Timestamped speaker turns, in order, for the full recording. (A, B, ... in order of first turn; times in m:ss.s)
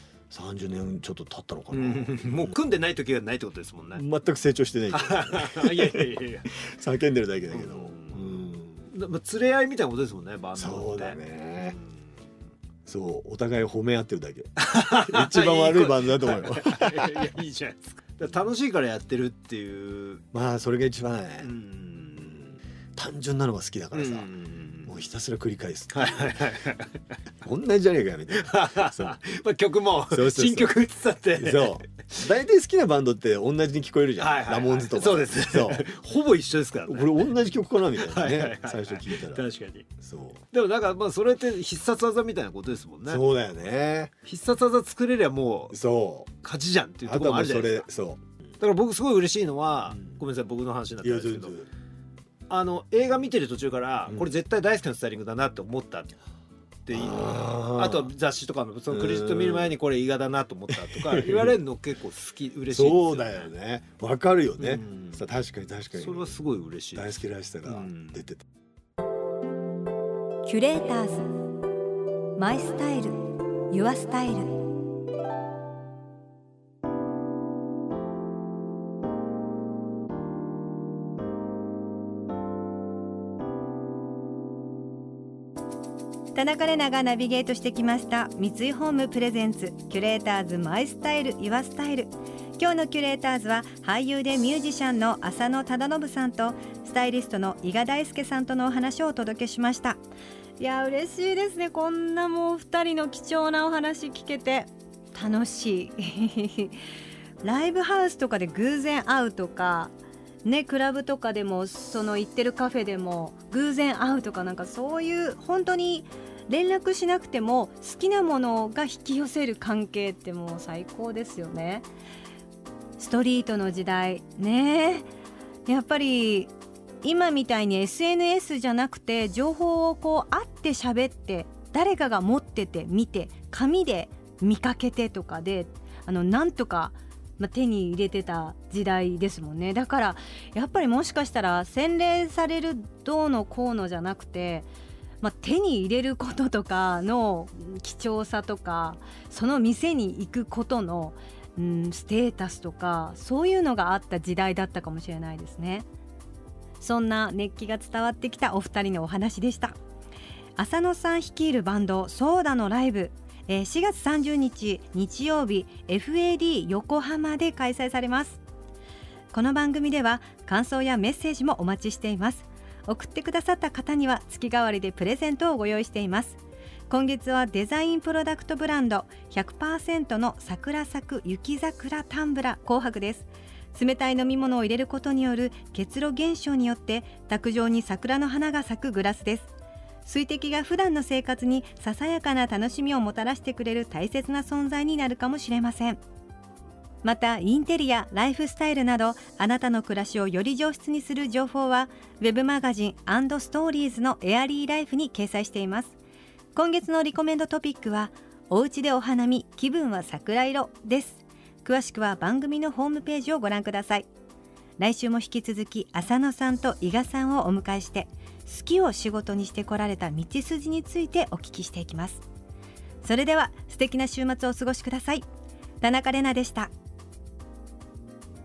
0:00.3-0:02.5 A
0:01.7-0:04.0 B
0:03.9-0:08.9 A
0:04.9-0:06.5 B
0:07.5-0:11.2 B
0:10.6-0:11.8 A
0:12.8-0:17.3 A
0:14.6-0:20.2 B
0:20.3-0:21.5 A
0:21.4-0:22.4 B
0:23.0-0:24.3 A
0:23.9-0:24.9 B
0:24.8-0:26.4 A
0:25.9-0:26.9 B
0:27.4-0:29.2 A
0:28.3-0:31.8 B
0:30.1-0:30.8 A
0:31.3-0:35.9 A
0:34.2-0:37.2 B
0:36.8-0:39.4 A
0:37.9-0:39.9 B
0:40.0-0:40.4 A
0:40.5-0:43.2 B
0:43.1-0:44.1 A
0:44.2-0:45.8 B
0:45.7-0:46.3 A
0:46.4-0:47.8 B
0:47.0-0:48.2 A
0:48.6-0:51.6 B
0:49.9-0:50.2 A
0:51.0-0:51.7 A
0:52.5-0:56.2 B
0:56.8-1:03.5 B
0:56.9-0:58.1 A
0:58.9-0:59.7 A
1:00.7-1:01.6 A
1:02.7-1:06.3 A
1:04.6-1:05.2 B
1:05.9-1:07.1 B
1:06.9-1:08.4 A
1:07.6-1:08.2 B
1:10.4-1:11.3 C
1:12.4-1:14.6 C
1:26.3-1:40.0 C
1:40.6-1:46.8 C
1:47.4-1:49.9 C
1:50.4-2:01.9 C
2:03.0-2:05.1 C
2:05.7-2:24.7 C
2:25.2-2:35.9 C
2:36.8-2:39.7 C
2:40.6-2:48.4 C
2:49.3-3:09.5 C
3:10.0-3:16.0 C
3:17.0-3:26.0 C
3:26.5-3:34.1 C
3:34.8-3:42.2 C
3:43.0-3:45.2 C
3:45.8-3:46.7 C